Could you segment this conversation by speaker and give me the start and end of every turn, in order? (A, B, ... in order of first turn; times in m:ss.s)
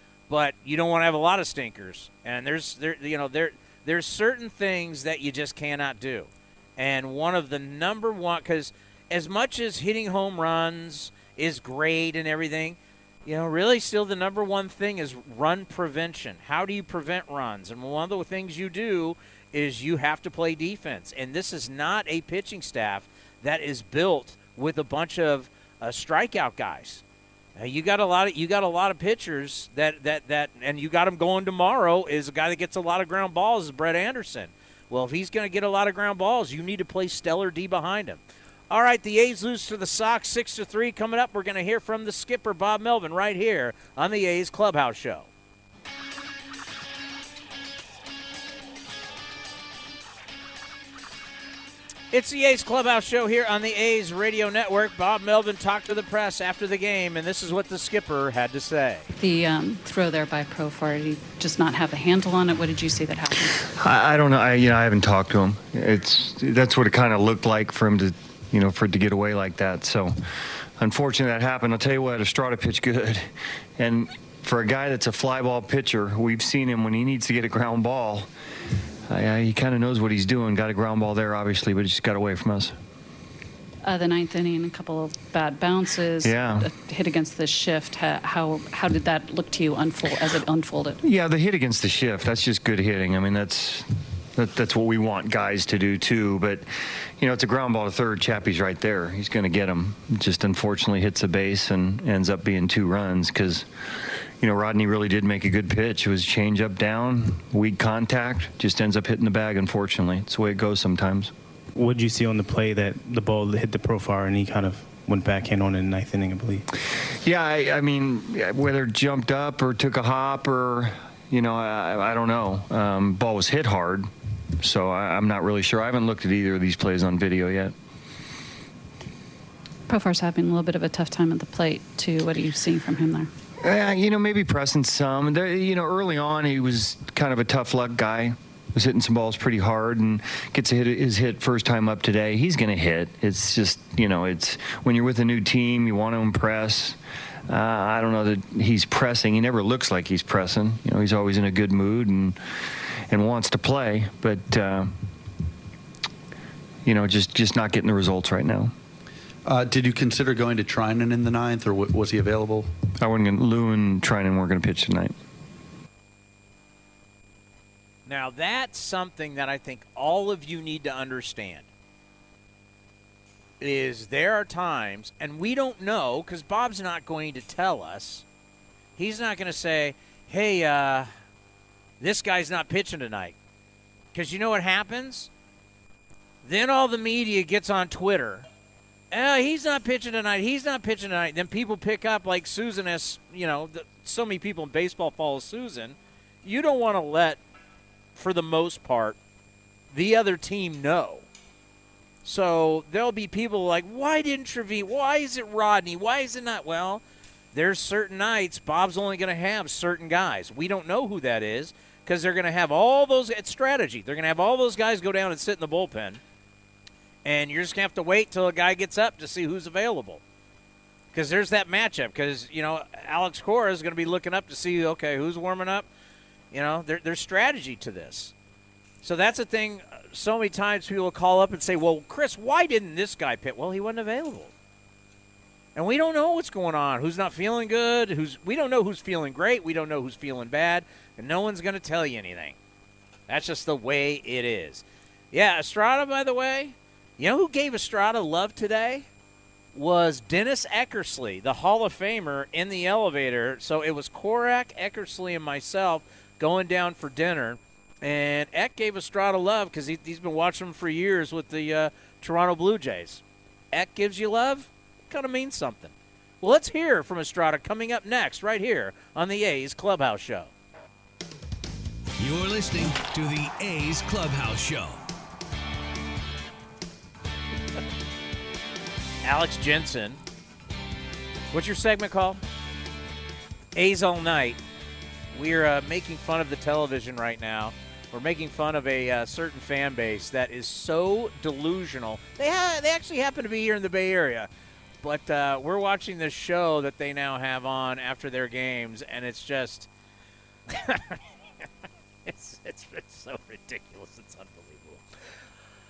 0:00.3-0:27.0 A
0:27.6-0:45.3 A
0:52.1-0:59.1 A
0:59.2-1:03.7 B
1:03.8-1:10.2 C
1:10.8-1:18.3 C
1:19.1-1:22.7 C
1:23.8-1:31.0 B
1:26.2-1:26.7 C
1:31.0-1:43.7 C
1:44.4-1:51.3 C
1:51.8-1:56.6 D
1:57.2-2:07.8 C
2:09.9-2:13.3 B
2:13.6-2:32.4 C
2:33.1-2:35.0 C
2:36.8-2:38.7 C
2:39.4-2:42.7 E
2:43.0-2:45.2 C
2:48.1-2:51.7 A
2:53.6-2:58.3 A
2:59.0-3:01.1 A
3:02.0-3:03.4 A
3:04.1-3:05.3 A
3:06.4-3:08.5 A
3:09.1-3:17.4 A
3:18.2-3:19.2 A
3:19.9-3:21.3 A
3:22.2-3:36.2 A
3:37.2-3:40.2 A
3:41.1-3:45.9 A
3:46.5-3:48.3 A
3:49.0-3:54.5 A
3:55.8-4:02.6 A
4:03.3-4:09.1 A
4:09.7-4:30.5 A
4:32.2-4:35.0 F
4:39.2-4:40.2 A
4:41.5-4:42.4 A
4:43.8-4:44.6 A
4:45.3-4:54.5 A
4:55.0-4:59.9 A
5:00.7-5:01.2 A
5:02.2-5:05.0 A